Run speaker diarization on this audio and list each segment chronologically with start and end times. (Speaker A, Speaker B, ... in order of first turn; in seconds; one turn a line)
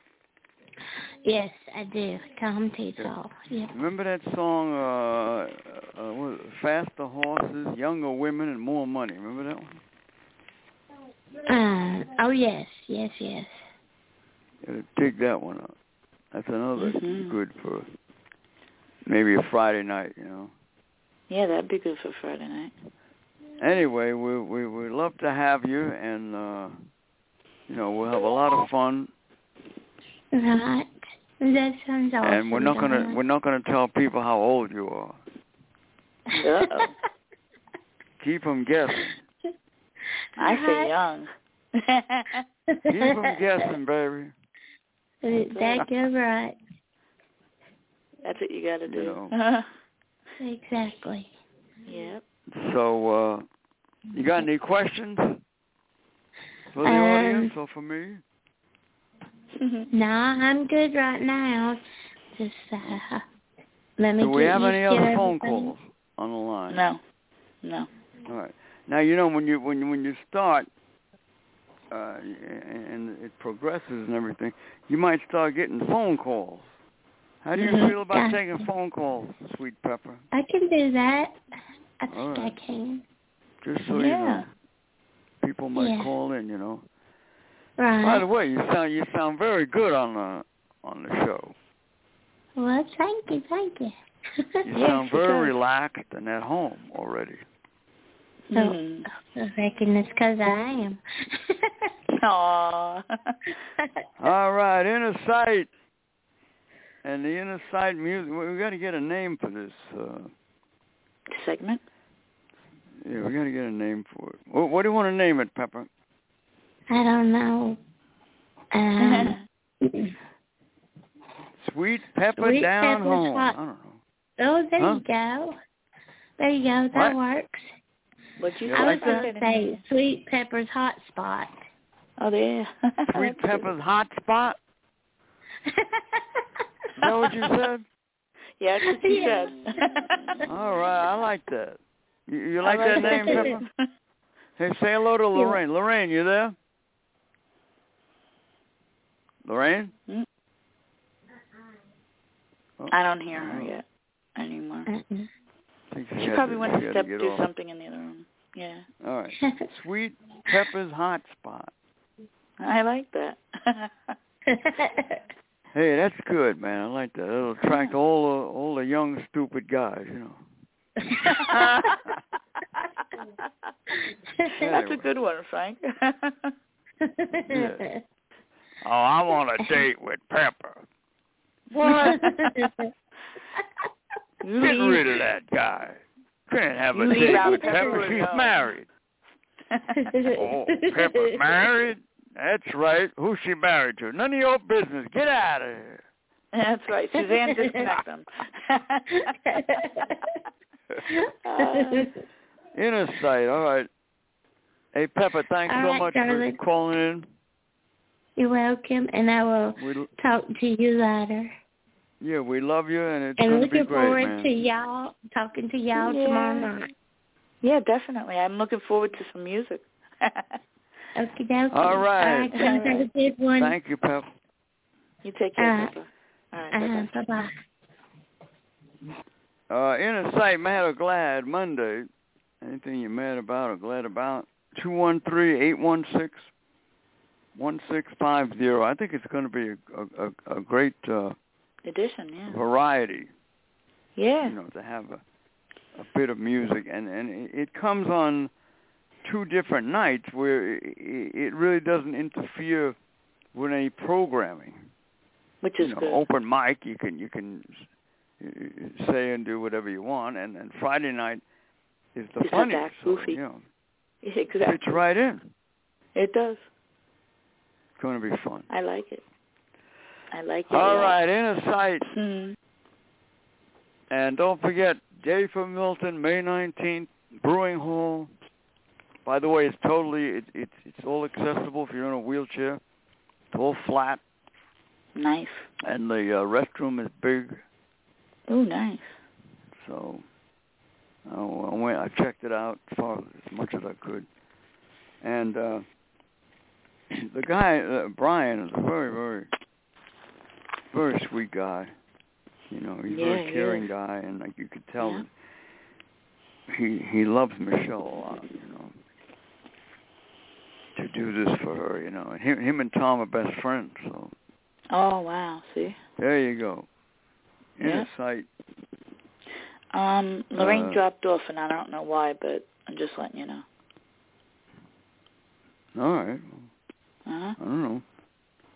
Speaker A: 1.2-3.8
Speaker B: 3.7-9.8
Speaker A: 11.5-13.6
Speaker B: 14.6-15.7
Speaker B: 16.3-17.9
Speaker C: 16.8-17.4
Speaker B: 19.1-20.5
Speaker C: 21.3-22.7
Speaker B: 23.6-26.8
Speaker B: 27.7-29.1
Speaker A: 30.3-33.2
Speaker B: 32.2-35.2
Speaker A: 36.3-36.9
Speaker C: 36.4-36.9
Speaker B: 38.2-39.2
Speaker C: 40.4-42.4
Speaker A: 40.4-40.9
Speaker B: 42.9-44.3
Speaker A: 42.9-43.3
Speaker A: 45.2-46.6
Speaker C: 45.5-45.9
Speaker C: 48.2-49.7
Speaker B: 48.9-49.3
Speaker A: 50.4-51.3
Speaker C: 51.9-52.2
Speaker B: 52.5-53.5
Speaker B: 54.1-55.4
Speaker B: 56.7-58.2
Speaker A: 56.8-57.5
Speaker C: 59.6-59.9
Speaker A: 59.9-61.8
Speaker A: 62.4-63.2
Speaker A: 64.0-65.7
Speaker B: 64.2-66.8
Speaker C: 66.7-67.0
Speaker C: 67.6-67.9
Speaker B: 68.3-70.7
Speaker B: 71.9-76.7
Speaker B: 77.4-80.2
Speaker C: 77.6-77.9
Speaker A: 78.1-78.4
Speaker A: 80.3-81.4
Speaker A: 82.0-83.0
Speaker B: 82.1-82.6
Speaker B: 83.6-84.5
Speaker C: 83.9-84.5
Speaker B: 85.4-86.8
Speaker A: 85.8-86.1
Speaker A: 87.8-88.2
Speaker B: 88.0-91.5
Speaker A: 92.6-93.9
Speaker B: 94.7-97.4
Speaker C: 94.8-95.5
Speaker C: 98.5-99.1
Speaker A: 98.5-101.0
Speaker C: 102.2-103.0
Speaker B: 104.2-105.7
Speaker B: 107.0-110.3
Speaker C: 111.3-111.8
Speaker B: 113.0-115.9
Speaker A: 116.9-117.8
Speaker A: 118.7-120.1
Speaker C: 119.0-119.4
Speaker B: 121.6-124.0
Speaker A: 122.4-123.6
Speaker A: 124.4-125.5
Speaker A: 126.4-127.6
Speaker B: 126.9-127.2
Speaker C: 128.4-129.8
Speaker B: 128.7-129.2
Speaker A: 128.7-131.5
Speaker C: 132.2-133.7
Speaker B: 133.1-134.6
Speaker A: 135.7-136.2
Speaker B: 137.0-137.9
Speaker C: 137.0-137.3
Speaker C: 138.6-140.4
Speaker A: 138.9-139.8
Speaker B: 140.5-143.6
Speaker C: 142.6-143.7
Speaker A: 142.9-143.6
Speaker B: 144.6-146.6
Speaker A: 145.3-145.6
Speaker B: 149.4-149.9
Speaker B: 152.8-153.7
Speaker C: 152.9-153.8
Speaker C: 154.4-154.9
Speaker A: 154.9-155.3
Speaker B: 155.9-157.5
Speaker C: 156.2-158.9
Speaker B: 159.0-161.7
Speaker C: 162.6-164.1
Speaker A: 164.5-165.2
Speaker B: 165.7-170.4
Speaker C: 167.7-167.9
Speaker A: 171.1-171.6
Speaker C: 171.2-172.0
Speaker B: 171.5-172.0
Speaker C: 173.0-173.5
Speaker B: 174.6-175.1
Speaker C: 174.6-176.5
Speaker A: 177.0-177.9
Speaker B: 177.5-177.8
Speaker B: 178.8-180.8
Speaker C: 181.8-182.3
Speaker B: 181.8-182.3
Speaker A: 181.8-182.9
Speaker C: 184.4-185.2
Speaker B: 184.6-188.9
Speaker C: 186.9-188.6
Speaker A: 187.1-188.1
Speaker C: 189.7-190.1
Speaker A: 190.0-191.6
Speaker B: 190.3-196.0
Speaker C: 196.5-200.1
Speaker A: 197.3-197.7
Speaker A: 199.5-200.3
Speaker A: 201.1-202.2
Speaker C: 201.4-202.1
Speaker B: 202.8-203.9
Speaker B: 204.9-207.3
Speaker A: 205.7-206.6
Speaker A: 208.4-211.5
Speaker B: 209.8-210.1
Speaker B: 212.2-214.5
Speaker A: 213.4-216.9
Speaker C: 215.9-216.7
Speaker C: 217.6-220.6
Speaker A: 221.2-223.8
Speaker B: 221.7-222.6
Speaker C: 222.5-223.1
Speaker B: 223.6-224.3
Speaker C: 225.2-227.1
Speaker A: 225.6-225.9
Speaker A: 226.7-227.5
Speaker B: 229.7-232.1
Speaker B: 232.6-236.5
Speaker B: 237.6-241.4
Speaker C: 241.8-242.6
Speaker B: 242.5-243.3
Speaker C: 244.2-244.6
Speaker B: 244.4-245.2
Speaker B: 245.9-248.5
Speaker B: 249.2-253.0
Speaker B: 253.5-254.8
Speaker C: 255.6-256.2
Speaker B: 255.8-257.9
Speaker B: 258.4-261.4
Speaker B: 262.1-263.6
Speaker C: 262.4-263.4
Speaker C: 264.2-265.0
Speaker B: 264.6-265.5
Speaker C: 266.1-266.6
Speaker B: 268.0-268.7
Speaker C: 268.7-269.2
Speaker C: 270.3-271.2
Speaker B: 270.7-272.1
Speaker C: 272.1-272.6
Speaker B: 274.1-278.3
Speaker B: 279.2-282.8
Speaker B: 283.5-284.2
Speaker C: 285.2-285.7
Speaker B: 285.8-287.6
Speaker C: 288.5-289.1
Speaker B: 289.8-290.2
Speaker B: 291.3-294.3
Speaker B: 295.2-295.9
Speaker B: 297.1-299.5
Speaker B: 300.9-301.9
Speaker B: 302.7-305.3
Speaker C: 303.1-303.9
Speaker C: 305.0-305.3
Speaker B: 306.7-308.9
Speaker B: 310.9-314.3
Speaker C: 314.9-316.0
Speaker B: 316.2-316.9
Speaker B: 317.8-318.5
Speaker C: 317.8-318.1
Speaker C: 319.9-323.6
Speaker B: 320.6-321.0
Speaker B: 325.9-326.7
Speaker C: 327.3-327.6
Speaker B: 327.6-328.0